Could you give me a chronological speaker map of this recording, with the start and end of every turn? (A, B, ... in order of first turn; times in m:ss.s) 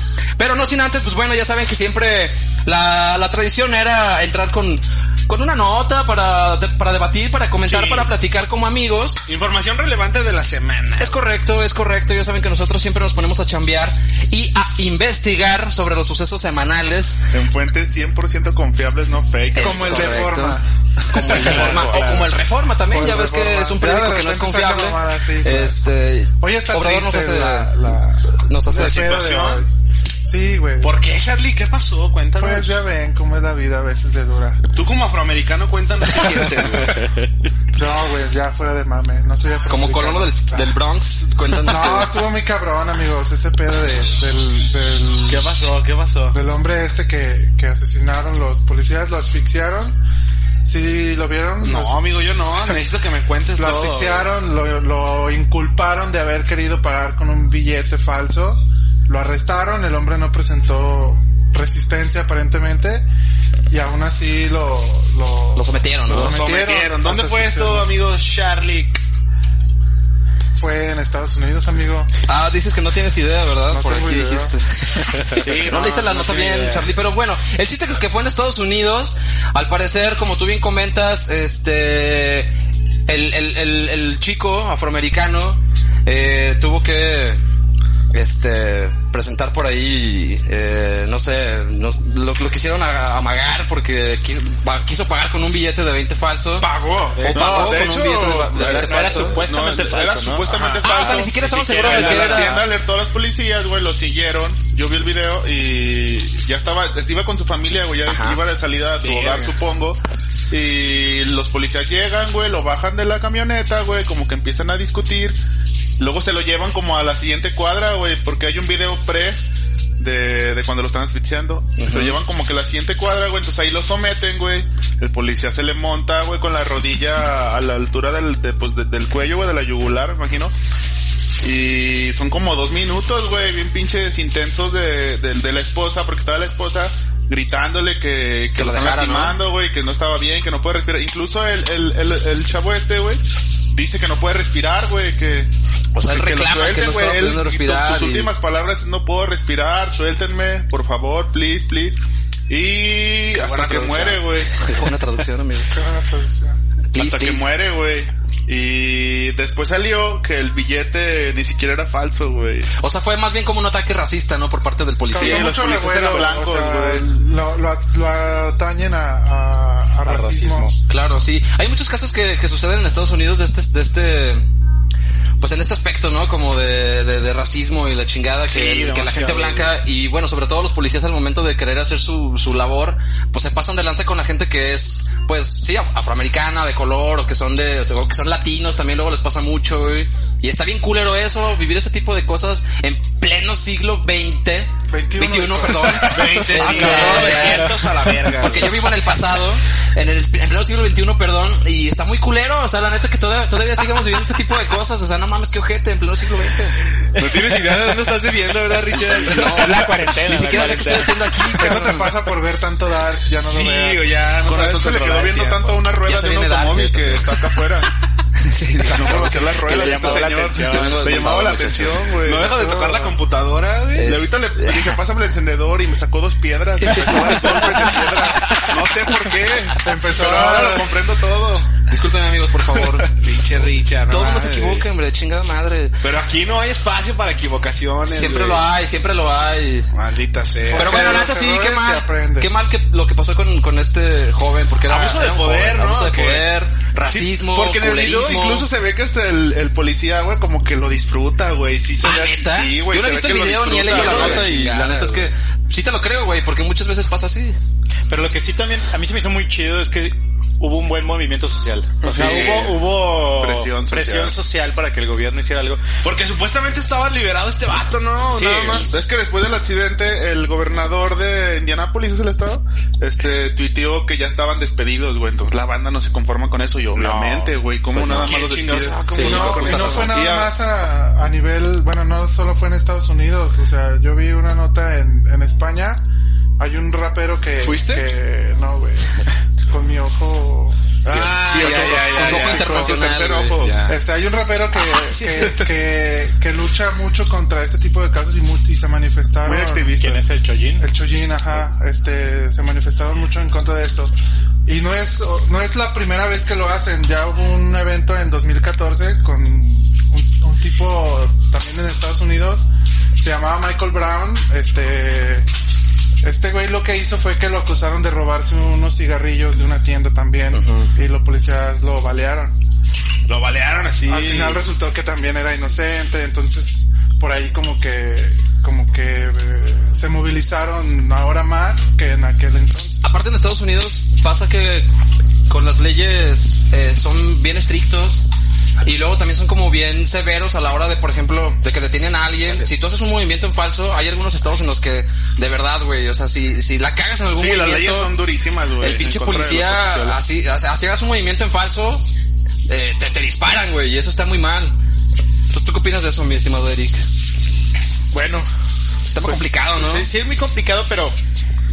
0:00.4-0:09.2 A
0:07.6-0:08.1 B
0:09.3-0:11.2 B
0:11.0-0:17.2 A
0:17.3-0:20.3 C
0:19.5-0:27.7 A
0:19.6-0:22.1 D
0:21.2-0:22.3 B
0:22.9-0:25.8 D
0:26.4-0:29.7 D
0:28.4-0:29.1 A
0:28.7-0:29.7 B
0:30.2-0:30.9 D
0:30.8-0:32.8 B
0:32.4-0:34.6 D
0:34.7-0:37.2 B
0:37.7-0:40.8 D
0:39.7-0:42.2 A
0:41.6-0:45.4 D
0:45.3-0:46.4 B
0:46.3-0:50.0 D
0:50.6-0:52.1 D
0:51.6-0:54.3 B
0:53.6-1:03.1 D
1:03.7-1:07.9 D
1:05.6-1:06.4 A
1:06.1-1:09.0 B
1:10.5-1:12.1 D
1:12.2-1:22.5 A
1:13.7-1:14.5 D
1:15.3-1:16.9 B
1:23.1-1:27.4 A
1:28.1-1:36.7 A
1:36.6-1:37.3 B
1:37.1-1:38.0 E
1:37.3-1:55.4 C
1:37.3-1:39.4 A
1:38.5-1:42.6 E
1:40.5-1:42.2 B
1:40.8-1:42.6 A
1:48.0-1:48.4 A
1:49.0-1:49.5 B
1:56.0-1:59.4 C
2:00.0-2:10.5 C
2:01.8-2:02.2 A
2:11.4-2:25.5 C
2:18.5-2:19.4 A
2:25.9-2:28.3 A
2:26.0-2:34.5 C
2:33.3-2:34.2 B
2:34.6-2:35.7 A
2:35.7-2:36.6 D
2:36.9-2:37.5 A
2:36.9-2:42.7 C
2:42.8-2:45.5 A
2:45.1-2:50.7 D
2:45.2-2:47.0 C
2:50.0-2:50.7 E
2:50.9-2:54.5 A
2:55.4-3:26.7 A
2:58.4-2:59.7 B
3:14.9-3:16.5 D
3:16.0-3:18.8 B
3:16.6-3:17.7 E
3:27.1-3:29.8 B
3:29.1-3:32.2 A
3:29.3-3:31.4 E
3:31.5-3:34.1 D
3:33.4-3:35.9 B
3:34.4-3:37.9 C
3:35.9-3:37.6 A
3:38.4-3:42.1 A
3:38.8-3:42.5 C
3:39.6-3:41.6 E
3:42.2-3:44.1 B
3:42.5-3:43.1 D
3:44.0-3:45.0 A
3:44.0-3:51.8 C
3:46.8-3:48.2 A
3:47.5-3:47.8 B
3:49.8-3:50.9 D
3:51.9-3:53.1 A
3:53.0-3:54.9 B
3:54.1-3:56.0 A
3:56.0-3:58.6 B
3:58.1-3:59.9 A
3:59.9-4:01.2 B
4:00.6-4:02.5 D
4:00.7-4:08.7 A
4:04.8-4:07.4 B
4:07.4-4:14.5 C
4:12.0-4:17.6 A
4:13.8-4:15.3 B
4:13.9-4:14.4 E
4:18.1-4:25.8 E
4:22.0-4:24.3 C
4:22.0-4:22.7 B
4:22.2-4:22.5 A
4:26.0-4:28.9 B
4:28.3-4:28.9 E
4:28.9-4:40.5 C
4:36.9-4:37.5 E
4:37.0-4:37.3 B
4:37.9-4:40.2 B
4:38.0-4:38.4 A
4:39.2-4:46.0 D
4:39.2-4:39.9 A
4:46.6-4:49.1 D
4:47.6-4:48.0 B
4:49.7-4:50.8 D
4:51.1-4:53.7 A
4:51.1-4:53.0 B
4:51.1-4:53.8 C
4:53.6-4:54.0 B
4:53.9-4:59.9 D
4:54.9-4:55.7 A
4:59.4-5:00.2 C
5:00.0-5:00.9 E
5:00.8-5:04.1 D
5:04.6-5:12.6 D
5:13.2-5:15.5 D
5:16.2-5:22.5 D
5:20.5-5:20.9 A
5:23.3-5:24.6 B
5:24.0-5:33.0 D
5:33.0-5:34.9 A
5:35.5-5:38.2 A
5:38.8-5:48.2 A
5:47.4-5:50.2 C
5:48.8-5:52.0 A
5:52.7-5:54.7 A
5:55.5-5:57.0 A
5:58.1-5:58.5 E
5:59.1-6:00.1 A
5:59.7-6:01.2 E